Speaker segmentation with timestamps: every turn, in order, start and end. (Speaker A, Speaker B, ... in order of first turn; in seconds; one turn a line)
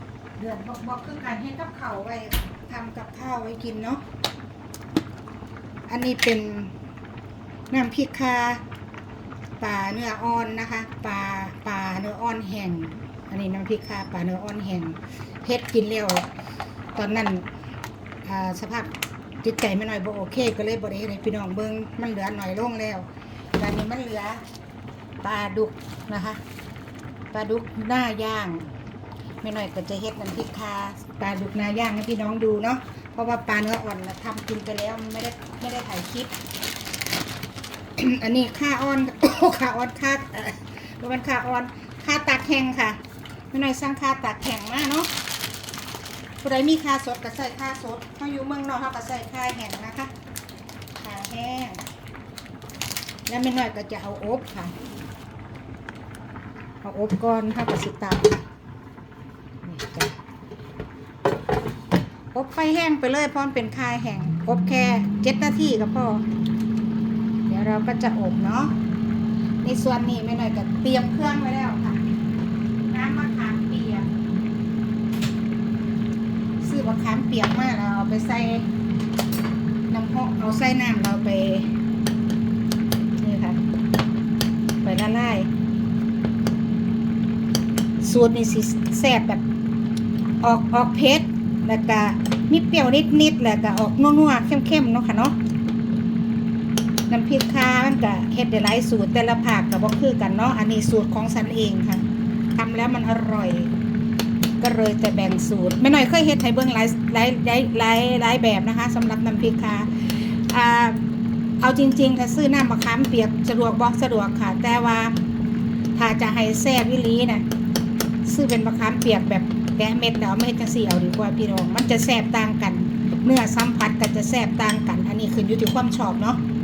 Speaker A: 0.4-4.0
Speaker A: 5.9-6.7
Speaker A: 7.7-8.6
Speaker A: 9.6-16.3
Speaker A: 16.9-17.5
Speaker A: 18.2-24.4
Speaker A: 25.2-26.4
Speaker A: 27.3-28.7
Speaker A: 29.4-36.3
Speaker A: 38.0-43.0
Speaker A: 43.5-45.1
Speaker A: 46.4-50.1
Speaker A: 51.0-51.8
Speaker A: 53.3-54.7
Speaker A: 56.8-58.5
Speaker A: 59.6-60.2
Speaker A: 62.3-66.2
Speaker A: 67.5-68.7
Speaker A: 69.6-72.0
Speaker A: 72.9-74.1
Speaker A: 76.6-78.7
Speaker A: 79.9-81.7
Speaker A: 83.2-83.6
Speaker A: 84.8-85.5
Speaker A: 88.0-89.4
Speaker A: 90.4-95.4
Speaker A: 97.1-103.7
Speaker A: 104.6-111.1
Speaker A: 111.6-115.2
Speaker A: 115.9-117.4
Speaker A: 118.2-126.4